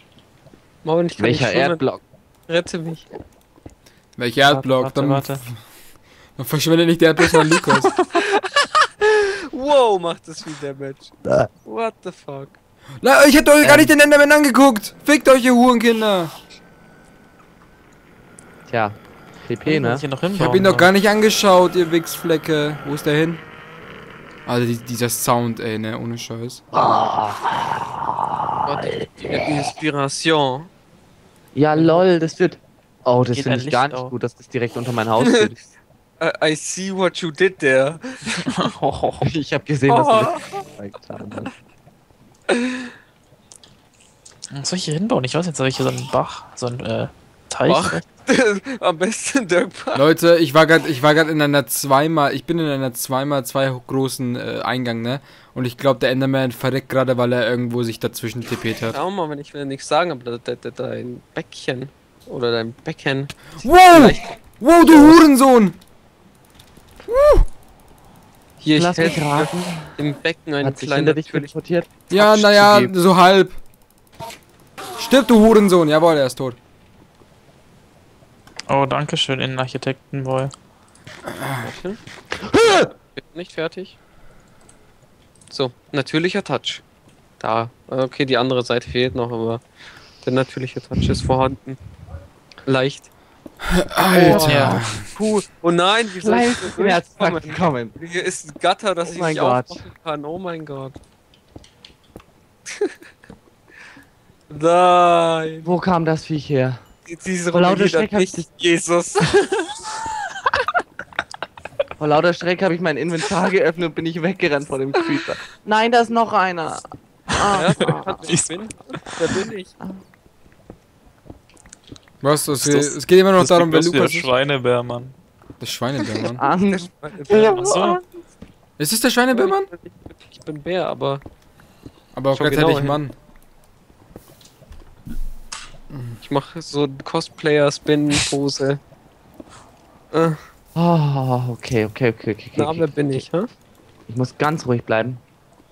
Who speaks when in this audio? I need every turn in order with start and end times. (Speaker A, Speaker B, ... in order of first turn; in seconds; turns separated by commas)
Speaker A: 0.8-1.8, Speaker B: 1.2-2.0, Speaker A: 2.5-3.1, Speaker C: 4.2-5.5, Speaker D: 4.6-5.4, Speaker C: 6.4-7.9, Speaker A: 8.1-11.1, Speaker A: 11.7-12.6, Speaker C: 13.0-16.3, Speaker D: 13.6-13.9, Speaker B: 18.7-20.0, Speaker D: 19.6-20.9, Speaker C: 20.3-23.4, Speaker C: 24.5-26.6, Speaker B: 26.7-29.5, Speaker A: 28.7-30.7, Speaker B: 31.6-35.6, Speaker D: 33.3-34.1, Speaker A: 36.2-38.5, Speaker D: 38.5-39.3, Speaker B: 39.2-41.5, Speaker A: 39.9-40.6, Speaker A: 42.5-42.8, Speaker D: 44.5-48.0, Speaker A: 47.7-50.0, Speaker C: 50.0-59.0, Speaker A: 58.9-65.3, Speaker C: 63.6-65.8, Speaker C: 67.1-67.5, Speaker A: 68.6-71.5, Speaker B: 68.8-70.0, Speaker B: 70.6-72.9, Speaker C: 72.1-73.6, Speaker C: 75.0-76.6, Speaker D: 78.7-80.5, Speaker C: 81.3-81.7, Speaker A: 81.6-82.0, Speaker B: 82.5-82.8, Speaker A: 82.7-84.0, Speaker A: 85.5-86.8, Speaker A: 87.4-89.6, Speaker A: 90.2-91.8, Speaker A: 92.7-93.1, Speaker C: 93.7-95.1, Speaker B: 94.0-95.5, Speaker D: 94.4-94.8, Speaker A: 95.5-101.0, Speaker B: 96.2-98.0, Speaker B: 99.0-99.8, Speaker A: 104.5-105.7, Speaker B: 105.6-106.8, Speaker A: 107.1-109.8, Speaker B: 107.5-108.5, Speaker B: 112.0-118.3, Speaker A: 117.5-119.7, Speaker D: 117.8-119.0, Speaker C: 122.2-124.3, Speaker D: 122.6-125.2, Speaker C: 125.6-126.4, Speaker B: 126.4-128.1, Speaker A: 126.6-127.7, Speaker D: 127.3-128.0, Speaker C: 128.8-129.7, Speaker A: 129.3-131.2, Speaker C: 132.1-133.2, Speaker A: 132.3-133.0, Speaker C: 135.9-136.2, Speaker A: 136.2-138.8, Speaker A: 140.1-140.4, Speaker B: 140.8-143.2, Speaker A: 142.6-143.5, Speaker B: 144.1-145.2